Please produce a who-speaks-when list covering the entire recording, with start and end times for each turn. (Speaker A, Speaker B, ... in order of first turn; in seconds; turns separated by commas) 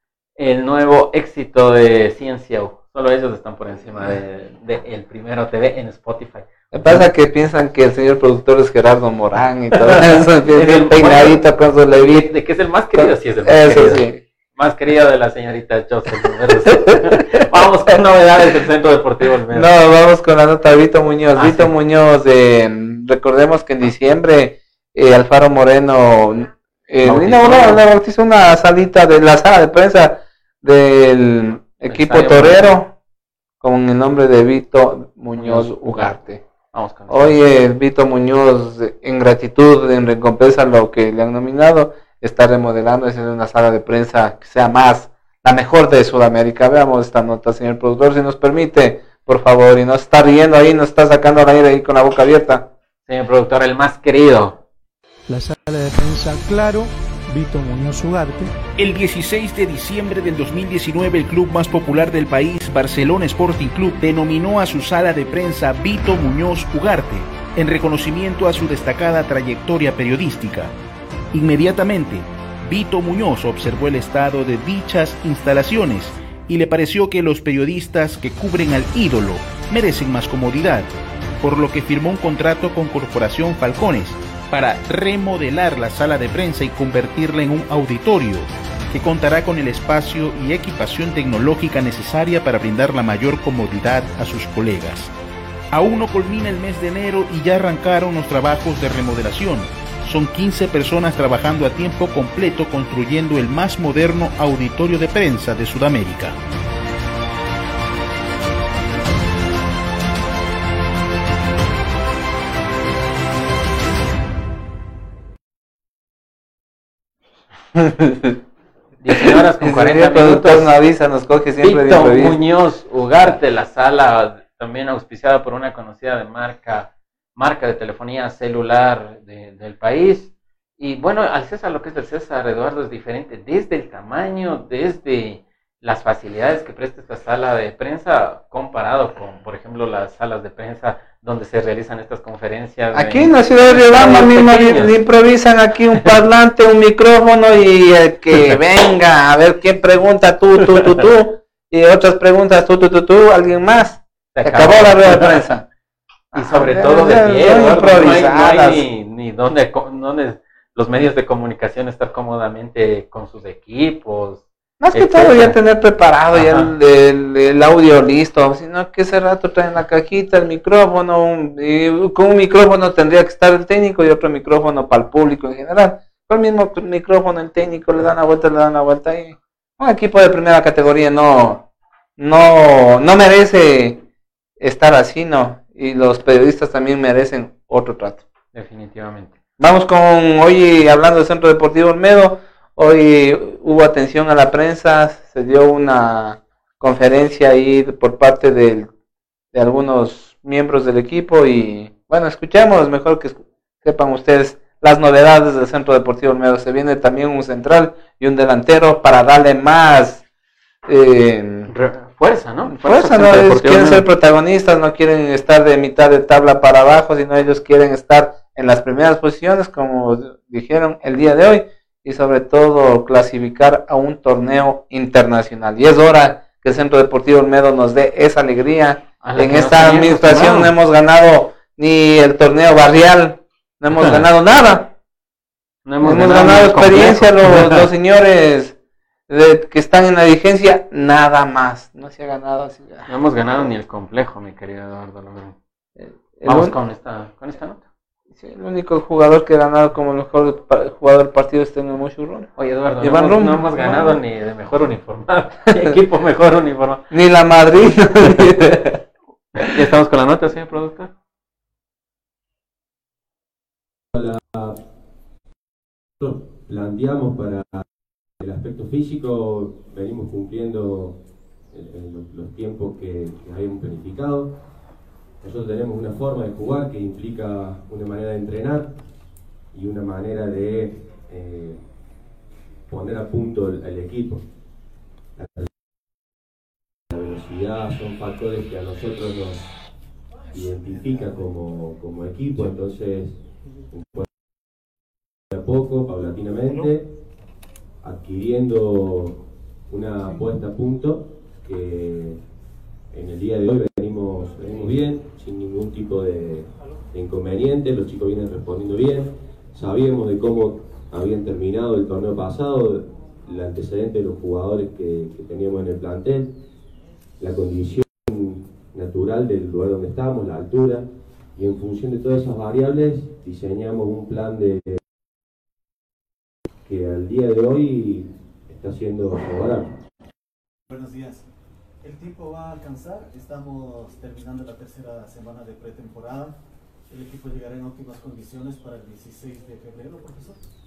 Speaker A: 0.4-7.1, Speaker B: 6.7-12.3, Speaker A: 9.7-14.0, Speaker B: 12.9-14.2, Speaker A: 14.6-19.7, Speaker B: 19.5-32.9, Speaker A: 21.3-21.7, Speaker A: 27.0-27.8, Speaker A: 31.9-32.7, Speaker B: 33.6-36.4, Speaker A: 35.3-36.1, Speaker A: 36.7-37.4, Speaker B: 37.1-52.7, Speaker A: 53.1-54.6, Speaker C: 55.5-56.8, Speaker C: 57.4-58.4, Speaker D: 58.8-70.7, Speaker D: 71.3-95.1, Speaker D: 95.7-106.4, Speaker B: 117.7-118.3, Speaker A: 119.0-120.7, Speaker B: 119.2-122.4, Speaker A: 121.6-144.9, Speaker B: 142.9-155.6, Speaker A: 154.3-155.4, Speaker A: 156.3-165.6, Speaker B: 156.3-158.8, Speaker B: 164.8-181.6, Speaker A: 166.3-166.7, Speaker B: 182.2-184.0, Speaker B: 184.6-188.2, Speaker A: 188.5-189.3, Speaker B: 189.6-198.9, Speaker B: 199.5-210.2, Speaker B: 210.8-211.7, Speaker A: 211.7-214.0, Speaker B: 212.7-234.9, Speaker A: 229.2-230.7, Speaker A: 234.0-234.2, Speaker A: 235.8-237.9, Speaker B: 236.0-238.7, Speaker B: 239.3-243.1, Speaker A: 243.1-245.6, Speaker B: 246.0-246.7, Speaker A: 246.4-247.8, Speaker B: 248.3-254.2, Speaker A: 252.6-257.1, Speaker B: 257.1-259.0, Speaker A: 259.6-261.1, Speaker E: 264.1-264.8, Speaker E: 266.2-267.8, Speaker E: 268.4-271.2, Speaker E: 271.7-274.6, Speaker E: 275.4-278.9, Speaker E: 279.7-281.8, Speaker E: 282.9-284.4, Speaker E: 285.4-285.7, Speaker E: 287.1-289.7, Speaker E: 290.5-294.3, Speaker E: 295.5-297.1, Speaker E: 298.0-302.4, Speaker E: 303.1-316.6, Speaker E: 317.4-325.0, Speaker E: 326.9-329.9, Speaker F: 330.9-331.5, Speaker F: 332.0-336.6, Speaker F: 337.1-340.6